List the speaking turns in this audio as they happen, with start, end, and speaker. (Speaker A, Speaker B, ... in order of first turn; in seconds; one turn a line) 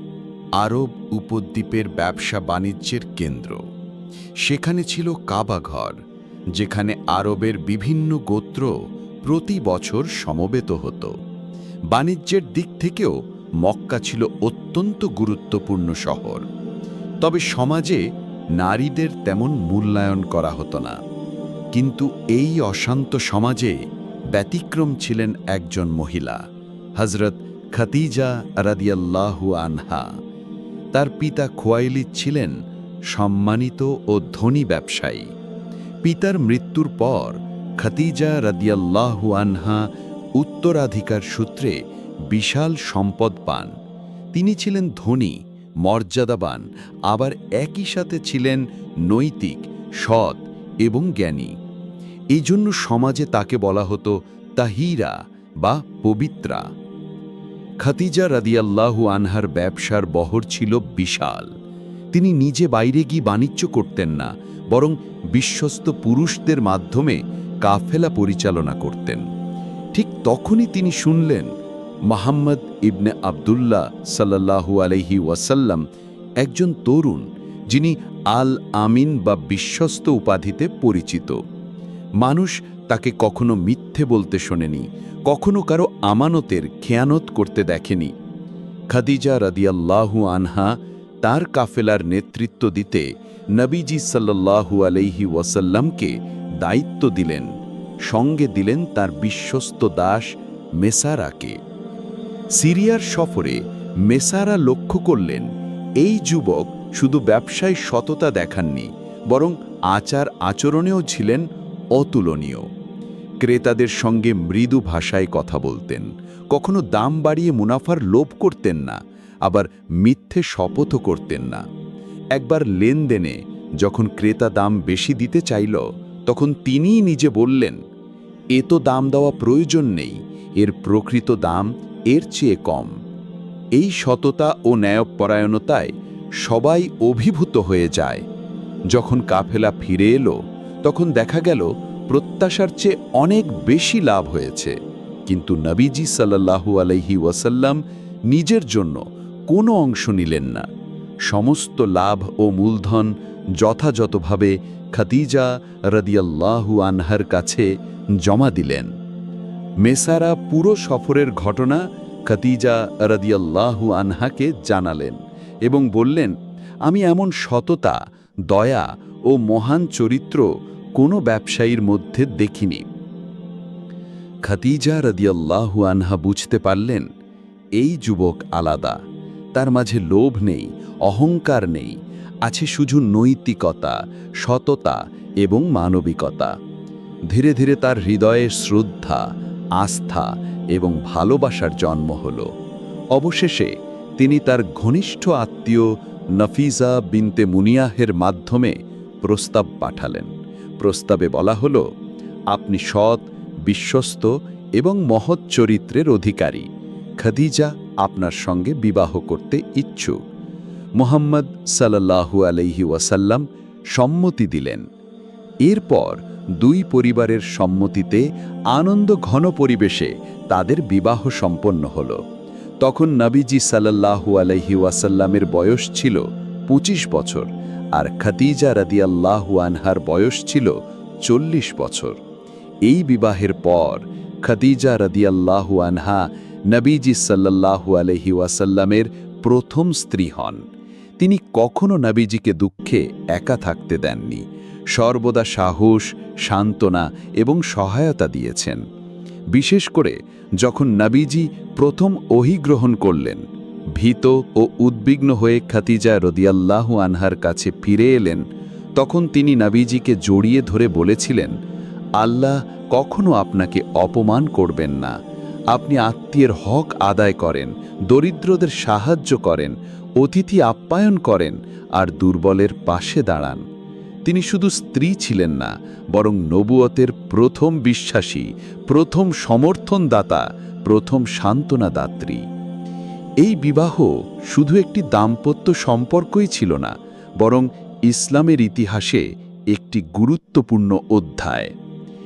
Speaker A: 0.6-3.6
Speaker A: 4.4-6.0
Speaker A: 6.6-8.7
Speaker A: 9.3-11.1
Speaker A: 11.9-16.4
Speaker A: 17.2-18.0
Speaker A: 18.6-20.9
Speaker A: 21.7-23.8
Speaker A: 24.3-26.4
Speaker A: 27.0-30.1
Speaker A: 30.9-32.5
Speaker A: 33.1-35.3
Speaker A: 36.0-39.9
Speaker A: 40.4-41.8
Speaker A: 42.3-43.7
Speaker A: 44.3-51.5
Speaker A: 52.3-56.6
Speaker A: 57.8-61.5
Speaker A: 62.1-69.2
Speaker A: 70.0-71.5
Speaker A: 72.1-75.8
Speaker A: 76.4-81.4
Speaker A: 82.2-88.1
Speaker A: 88.9-97.5
Speaker A: 98.1-100.3
Speaker A: 100.8-101.6
Speaker A: 102.6-105.5
Speaker A: 106.0-111.4
Speaker A: 112.0-112.6
Speaker A: 113.4-121.6
Speaker A: 122.3-127.8
Speaker A: 128.5-132.9
Speaker A: 133.8-135.9
Speaker A: 136.4-138.2
Speaker A: 138.9-144.8
Speaker A: 145.3-147.8
Speaker A: 148.3-150.7
Speaker A: 151.3-153.1
Speaker A: 153.6-157.7
Speaker A: 158.2-158.9
Speaker A: 159.8-166.3
Speaker A: 166.9-168.0
Speaker A: 168.5-170.5
Speaker A: 171.0-172.8
Speaker A: 174.5-177.1
Speaker A: 177.8-179.0
Speaker A: 179.6-186.5
Speaker A: 187.3-189.2
Speaker A: 189.8-192.5
Speaker A: 193.2-195.9
Speaker A: 196.4-200.3
Speaker A: 200.8-201.8
Speaker A: 202.5-206.7
Speaker A: 207.2-210.2
Speaker A: 211.0-213.4
Speaker A: 213.9-214.8
Speaker A: 215.6-222.2
Speaker A: 222.8-232.2
Speaker A: 232.9-240.6
Speaker A: 241.2-244.4
Speaker A: 244.9-248.8
Speaker A: 249.5-253.4
Speaker A: 254.0-258.4
Speaker A: 259.0-261.5
Speaker A: 262.2-265.1
Speaker A: 265.7-273.6
Speaker A: 274.3-282.4
Speaker A: 283.4-291.7